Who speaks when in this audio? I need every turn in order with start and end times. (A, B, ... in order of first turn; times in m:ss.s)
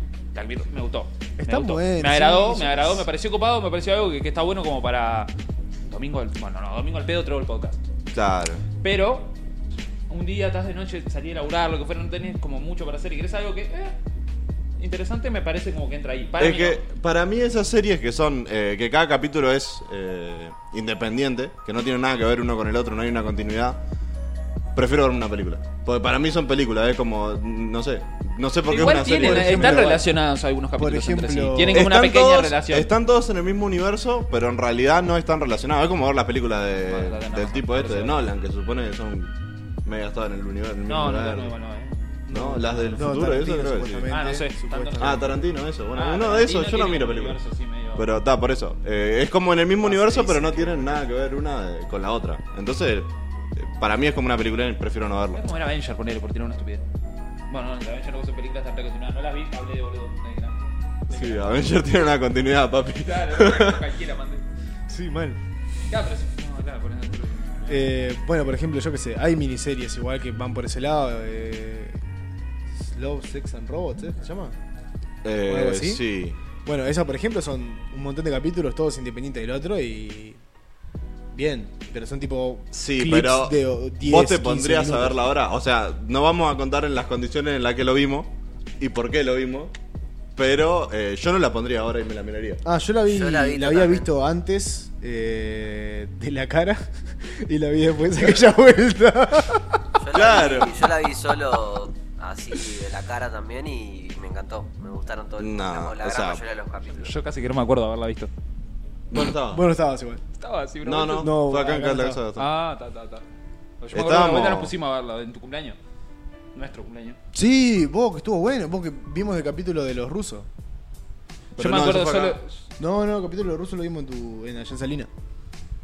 0:00.3-0:05.3 A
0:01.4-0:03.1 B
0:05.9-0:07.8 A
0:08.1-0:08.6 C
0:08.8-0:09.3 A
0:10.1-0:14.0 A
0:14.8-0:16.8 A
0:16.4-0:23.8 C
0:24.7-0:30.0 C
0:28.7-0:32.9 A
0:28.9-0:30.0 B
0:30.8-0:31.9 B
0:31.7-0:39.3 C
0:36.8-0:38.3 A
0:39.8-0:41.5 C
0:40.9-0:42.9 A
0:42.3-0:45.3 B
0:42.3-0:44.1 C
0:44.1-0:45.3 A
0:45.0-0:47.4 C
0:45.9-0:48.0 A
0:47.9-0:55.4 C
0:49.8-0:50.7 A
0:49.9-0:50.7 B
0:55.3-0:56.8 A
0:57.5-1:01.7 A
1:01.1-1:03.8 C
1:03.0-1:04.4 A
1:04.9-1:05.4 B
1:05.9-1:07.9 A
1:07.7-1:12.0 B
1:12.7-1:14.5 B
1:15.2-1:16.4 C
1:15.4-1:16.0 B
1:16.6-1:20.4 B
1:21.3-1:25.3 B
1:22.7-1:29.7 C
1:30.4-1:32.6 C
1:32.6-1:39.8 B
1:33.1-1:34.1 D
1:40.0-1:47.1 D
1:40.1-1:40.8 C
1:45.4-1:46.4 C
1:46.9-1:48.3 A
1:49.1-1:49.6 C
1:49.1-1:50.2 B
1:50.4-1:51.3 A
1:50.8-1:52.5 C
1:51.2-1:52.2 B
1:52.4-1:53.2 A
1:53.8-1:55.8 A
1:53.9-1:54.7 C
1:56.5-1:57.2 A
1:57.3-2:00.5 B
2:01.6-2:02.4 C
2:01.6-2:02.6 A
2:02.8-2:05.1 B